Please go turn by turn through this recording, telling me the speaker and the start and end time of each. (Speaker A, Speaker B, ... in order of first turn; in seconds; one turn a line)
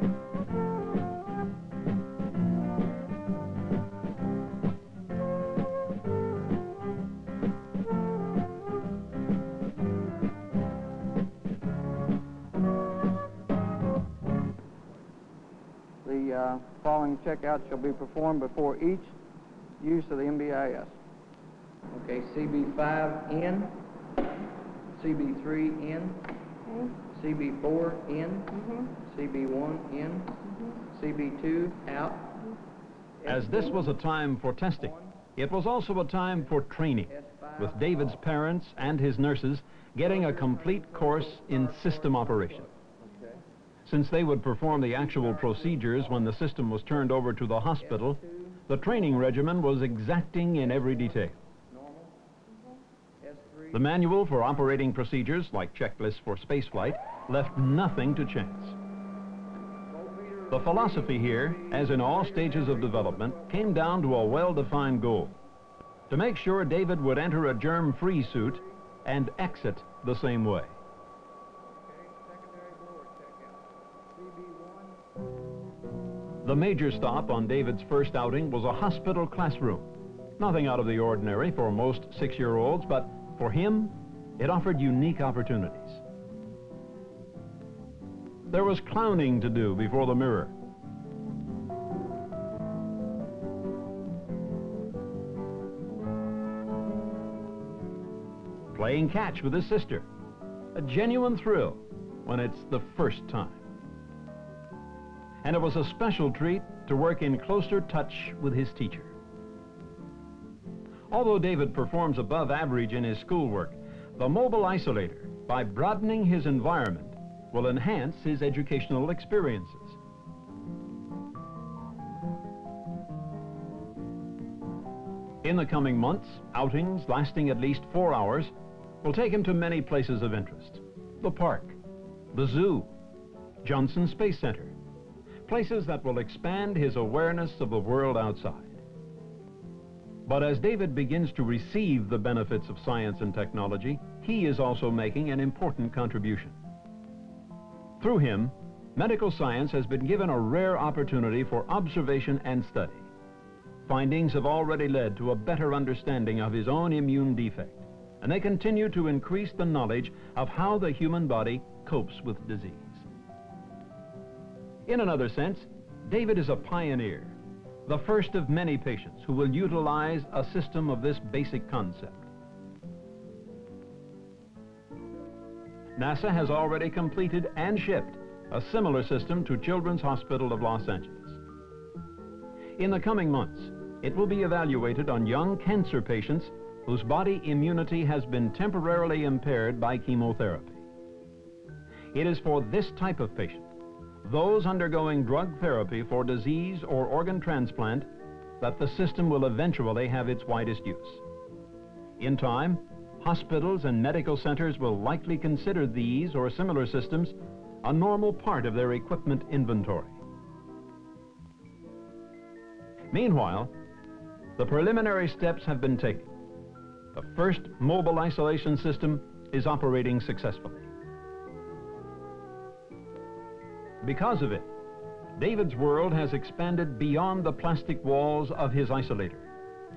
Speaker A: 16.0-19.1
Speaker A: 19.8-20.9
Speaker A: 21.9-23.8
Speaker A: 25.0-32.5
Speaker B: 33.2-42.7
Speaker A: 40.3-42.1
Speaker A: 43.1-43.4
Speaker B: 43.8-51.4
Speaker A: 51.7-52.1
Speaker A: 53.2-53.7
Speaker B: 53.7-58.8
Speaker A: 59.9-61.1
Speaker B: 60.5-65.3
Speaker A: 61.8-63.0
Speaker B: 66.1-70.8
Speaker A: 71.8-73.6
Speaker A: 74.1-75.0
Speaker B: 76.4-86.0
Speaker B: 88.5-90.5
Speaker B: 98.7-100.0
Speaker B: 100.7-103.6
Speaker B: 105.4-109.1
Speaker B: 111.1-120.0
Speaker B: 125.4-131.8
Speaker B: 132.3-132.9
Speaker B: 133.6-134.7
Speaker B: 135.4-138.8
Speaker B: 140.2-146.6
Speaker B: 148.0-153.1
Speaker B: 153.8-163.1
Speaker B: 164.8-172.3
Speaker B: 176.0-181.4
Speaker B: 182.8-190.8
Speaker B: 192.1-193.7
Speaker B: 194.2-198.1
Speaker B: 198.6-201.2
Speaker B: 202.2-210.2
Speaker B: 213.1-213.7
Speaker B: 214.6-216.3
Speaker B: 217.1-220.9
Speaker B: 224.0-224.7
Speaker B: 225.3-229.5